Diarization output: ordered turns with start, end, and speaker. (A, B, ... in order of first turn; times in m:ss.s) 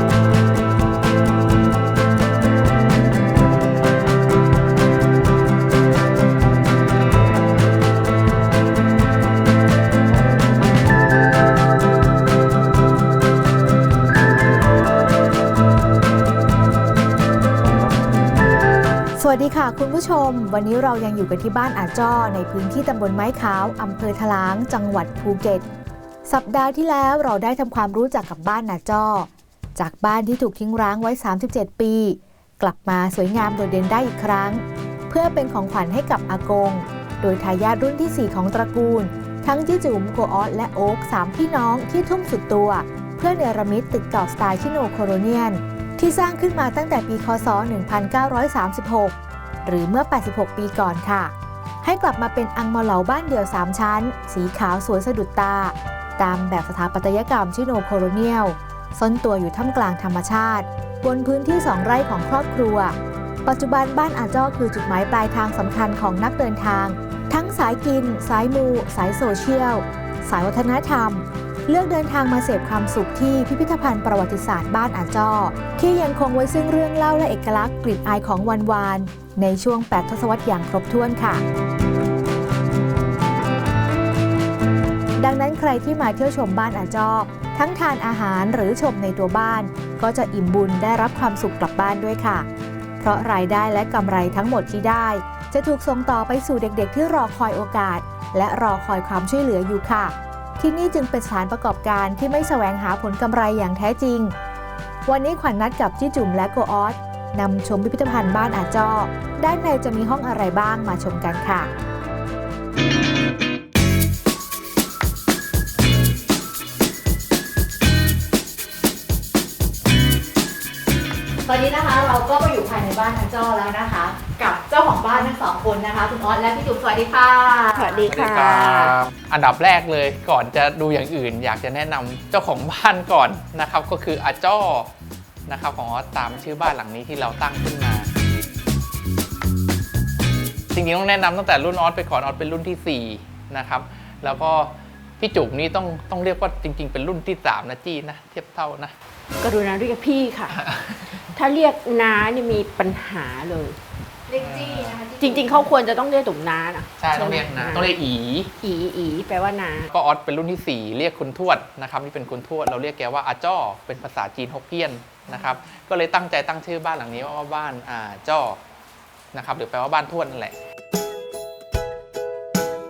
0:19.2-0:25.6 A
0:26.3-1:21.4 A
1:25.2-1:32.5 A
1:33.0-1:44.3 A
1:45.1-1:51.7 A
2:01.4-2:08.0 A
2:07.7-2:09.0 B
2:08.1-2:14.9 C
2:15.5-2:18.1 C
2:20.7-2:29.0 C
2:29.4-2:30.6 B
2:30.5-2:31.1 C
2:31.3-2:33.8 B
2:34.4-2:35.1 C
2:35.2-2:37.9 B
2:37.0-2:38.5 C
2:38.6-2:39.9 B
2:39.9-2:48.6 C
2:49.3-2:50.6 C